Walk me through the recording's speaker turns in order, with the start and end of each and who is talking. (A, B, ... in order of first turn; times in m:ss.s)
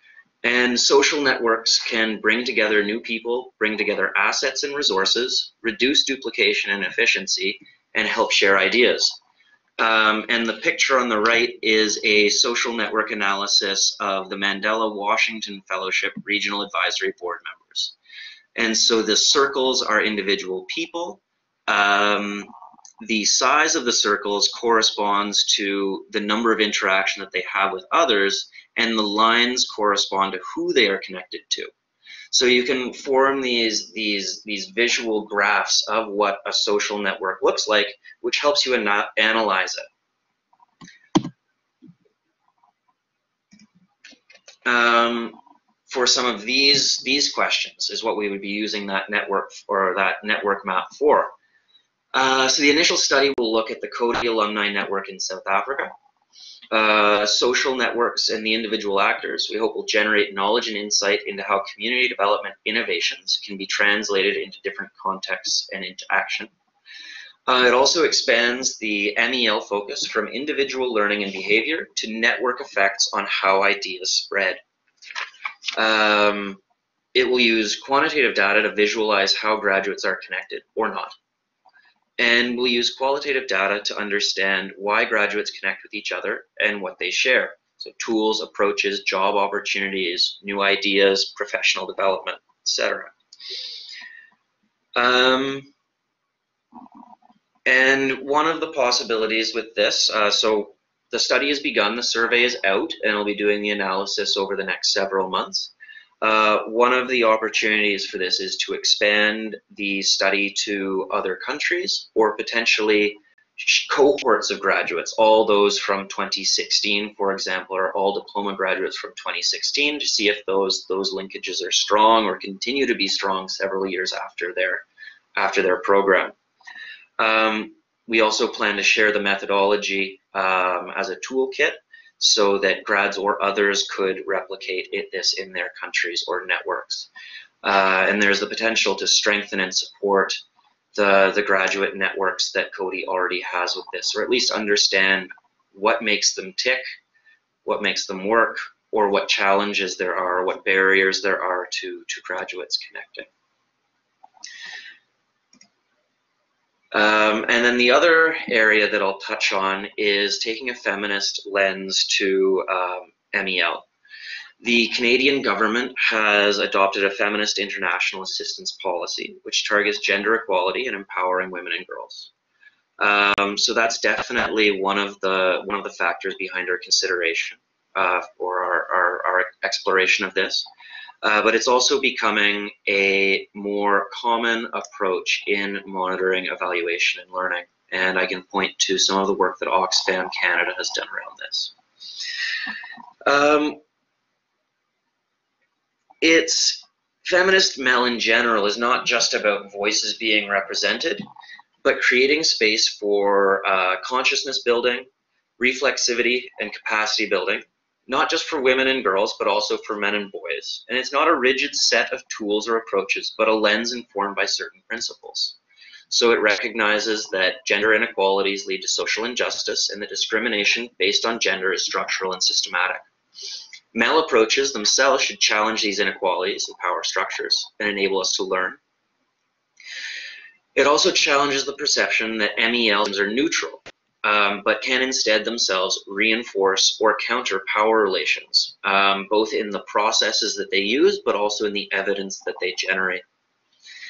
0:00.4-0:09.2 A
0:09.8-0:18.0 A
0:18.6-0:22.5 A
0:23.0-0:31.7 A
0:32.3-0:39.9 A
0:44.6-0:51.3 A
0:52.1-0:55.9 A
0:56.7-1:06.5 A
1:07.5-1:14.6 A
1:15.8-1:16.6 A
1:17.1-1:21.2 A
1:22.2-1:33.1 A
1:35.0-1:35.7 A
1:37.7-2:04.8 A
2:05.4-2:06.3 A
2:07.2-2:17.1 A
2:17.6-2:20.4 A
2:21.0-2:26.8 A
2:27.6-2:33.3 A
2:36.9-2:43.9 A
2:44.6-2:52.3 A
2:53.0-3:00.7 A
3:01.2-3:11.7 A
3:13.2-3:13.8 A
3:16.2-3:21.3 A
3:21.8-3:35.6 A
3:36.1-3:43.0 A
3:43.9-3:48.8 A
3:50.8-4:03.2 A